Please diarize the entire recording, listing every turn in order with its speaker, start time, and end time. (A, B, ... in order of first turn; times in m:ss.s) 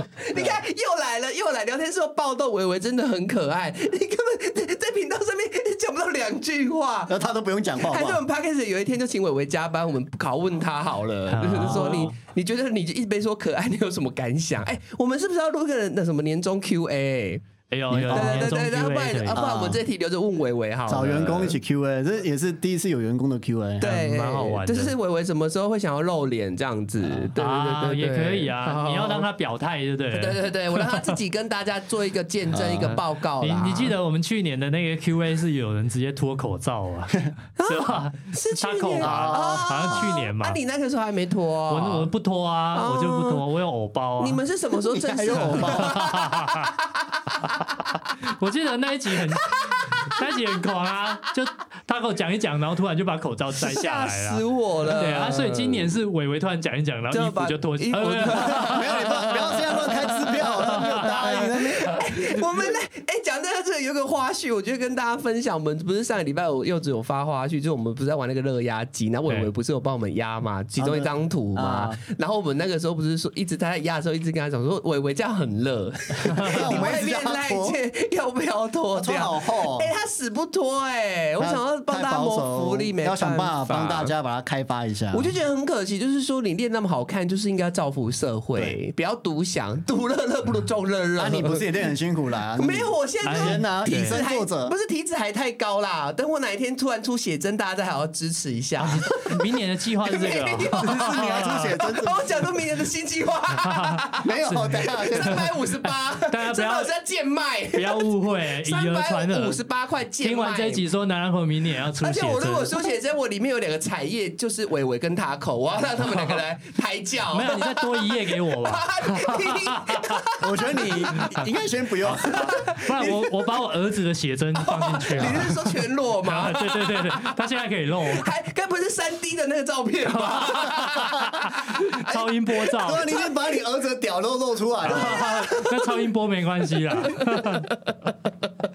0:00.2-0:07.1 A
0:00.3-0:00.6 B
0:07.1-0:08.2 B
0:07.8-0:17.4 A
0:11.3-0:12.1 C
0:17.7-0:19.4 C
0:17.9-0:18.5 B
0:18.1-0:21.6 A
0:19.3-0:19.8 B
0:20.9-0:23.9 B
0:23.8-0:29.3 A
0:23.8-0:25.0 C
0:27.4-0:31.2 C
0:30.1-0:34.0 A
0:32.5-0:33.0 B
0:32.8-0:40.6 C
0:37.6-0:42.1 A
0:39.0-0:40.1 B
0:41.7-0:44.4 C
0:42.7-0:43.4 A
0:44.2-0:47.8 A
0:44.9-0:46.2 B
0:45.4-0:46.8 C
0:47.5-0:59.9 C
0:49.4-0:50.2 A
0:53.6-0:55.9 A
0:57.1-1:24.1 A
0:58.4-1:02.1 B
1:00.7-1:01.4 C
1:10.8-1:12.0 B
1:16.2-1:17.8 B
1:16.3-1:16.9 C
1:18.9-1:19.9 B
1:21.4-1:25.3 B
1:25.1-1:31.7 A
1:31.2-1:34.7 B
1:32.6-1:50.8 A
1:33.2-1:34.2 C
1:38.8-1:41.8 C
1:40.8-1:42.2 B
1:43.6-1:45.5 C
1:44.2-1:45.5 B
1:46.2-1:46.9 C
1:47.7-1:49.6 C
1:50.2-1:52.9 C
1:52.0-2:01.4 A
1:56.1-1:56.4 C
1:57.3-2:00.2 C
2:00.4-2:02.6 B
2:01.1-2:01.5 C
2:02.0-2:08.3 C
2:02.1-2:03.5 A
2:04.6-2:07.4 A
2:08.1-2:13.3 A
2:10.2-2:13.1 C
2:12.8-2:15.4 B
2:14.8-2:17.7 C
2:14.9-2:15.9 A
2:16.9-2:18.0 A